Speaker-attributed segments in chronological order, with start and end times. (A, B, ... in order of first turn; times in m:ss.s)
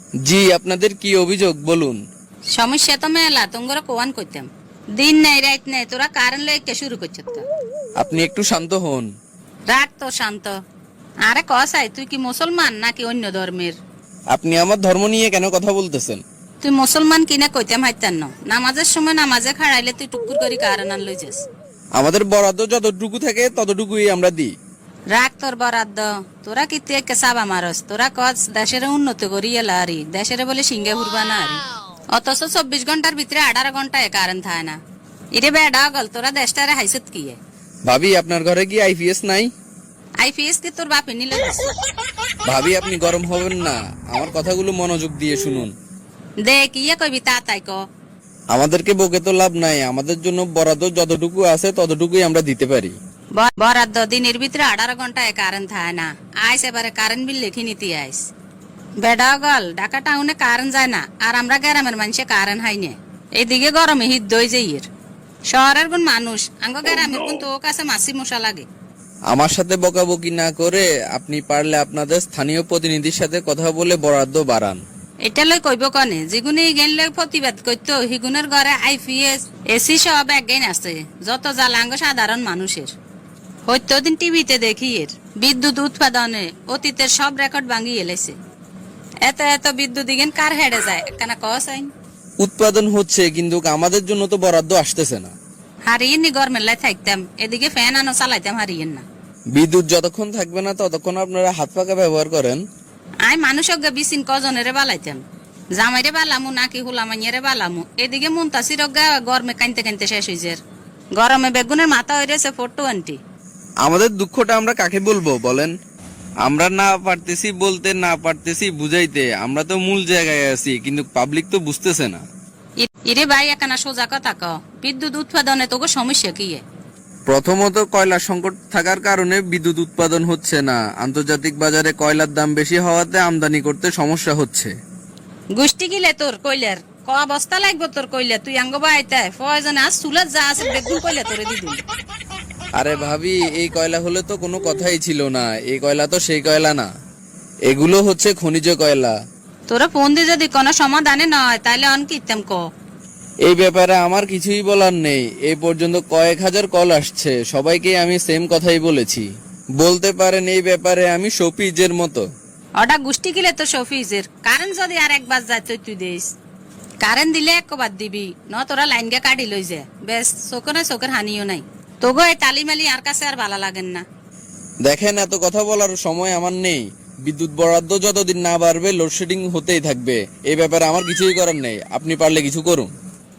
0:00.2-0:02.0 A
0:02.5-0:07.4 B
0:08.0-0:09.1 A
0:09.7-0:10.5 B
0:11.3-0:13.8 B
0:14.3-0:16.2 A
0:16.6-0:21.4 B
0:22.0-0:24.5 A
0:25.1-0:34.8 B
0:35.4-0:37.4 B
0:37.9-0:39.5 A
0:40.2-0:41.8 B
0:42.5-0:45.7 A
0:46.4-0:47.8 B
0:48.5-0:53.0 A
0:53.4-0:58.2 B
0:59.0-1:04.9 B
1:05.5-1:08.6 B
1:09.3-1:14.8 A
1:15.2-1:22.9 B
1:23.7-1:28.4 B
1:29.2-1:31.9 B
1:32.4-1:35.3 A
1:35.9-1:39.0 B
1:39.5-1:42.6 A
1:43.2-1:45.2 B
1:45.8-1:50.6 B
1:51.2-1:53.2 B
1:53.8-1:55.7 A
1:56.4-2:02.2 A
2:02.8-2:06.6 B
2:07.3-2:14.7 A
2:15.6-2:21.8 B
2:22.8-2:26.9 A
2:27.7-2:29.1 A
2:29.7-2:32.6 B
2:33.4-2:39.3 A
2:39.8-2:42.2 A
2:42.8-2:46.3 B
2:47.0-2:54.0 B
2:54.8-3:02.9 A